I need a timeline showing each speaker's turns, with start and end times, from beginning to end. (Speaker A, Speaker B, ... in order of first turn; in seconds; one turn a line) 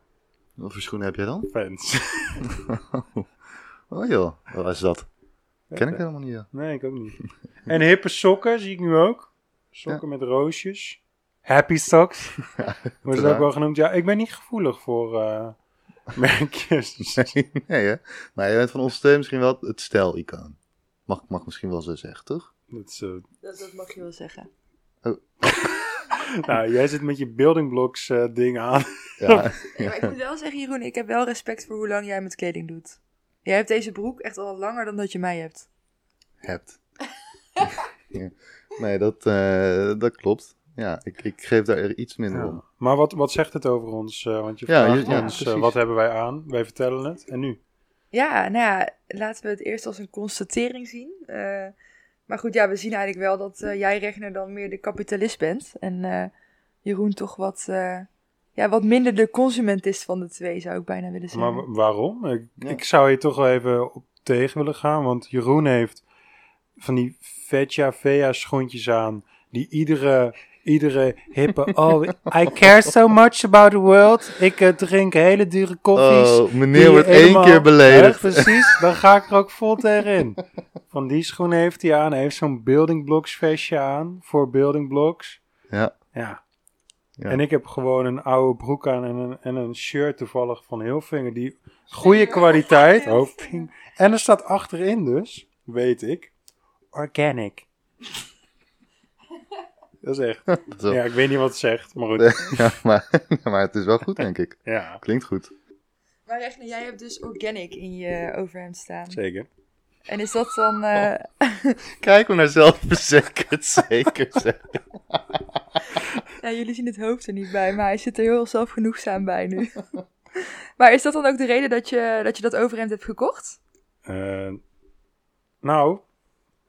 Speaker A: 0.6-1.5
Speaker B: 1.5-2.5
Speaker A: 2.4-3.3
Speaker A: 3.9-5.1
Speaker B: 5.7-12.5
Speaker A: 5.8-6.5
Speaker A: 12.7-13.4
Speaker B: 13.0-15.6
Speaker B: 16.1-17.3
Speaker A: 17.1-22.5
Speaker B: 22.7-23.2
Speaker C: 23.4-24.5
Speaker A: 25.0-25.6
Speaker B: 26.1-29.5
Speaker A: 29.2-30.1
Speaker C: 29.7-35.7
Speaker A: 36.4-36.8
Speaker A: 38.1-42.6
Speaker B: 42.3-47.6
Speaker A: 44.7-45.7
Speaker C: 45.0-45.4
Speaker C: 48.1-51.7
Speaker C: 52.3-56.3
Speaker C: 56.8-61.6
Speaker B: 61.3-66.0
Speaker B: 66.8-85.4
Speaker A: 75.9-78.7
Speaker B: 86.1-86.4
Speaker B: 87.3-96.3
Speaker C: 92.0-93.7
Speaker B: 96.9-97.7
Speaker B: 100.0-102.8
Speaker A: 100.5-101.0
Speaker A: 102.2-105.5
Speaker B: 104.7-105.0
Speaker C: 106.3-109.2
Speaker B: 109.1-109.5
Speaker C: 110.0-111.8
Speaker A: 112.0-115.4
Speaker C: 116.4-119.8
Speaker C: 120.3-123.6
Speaker B: 124.0-124.6
Speaker B: 125.6-126.0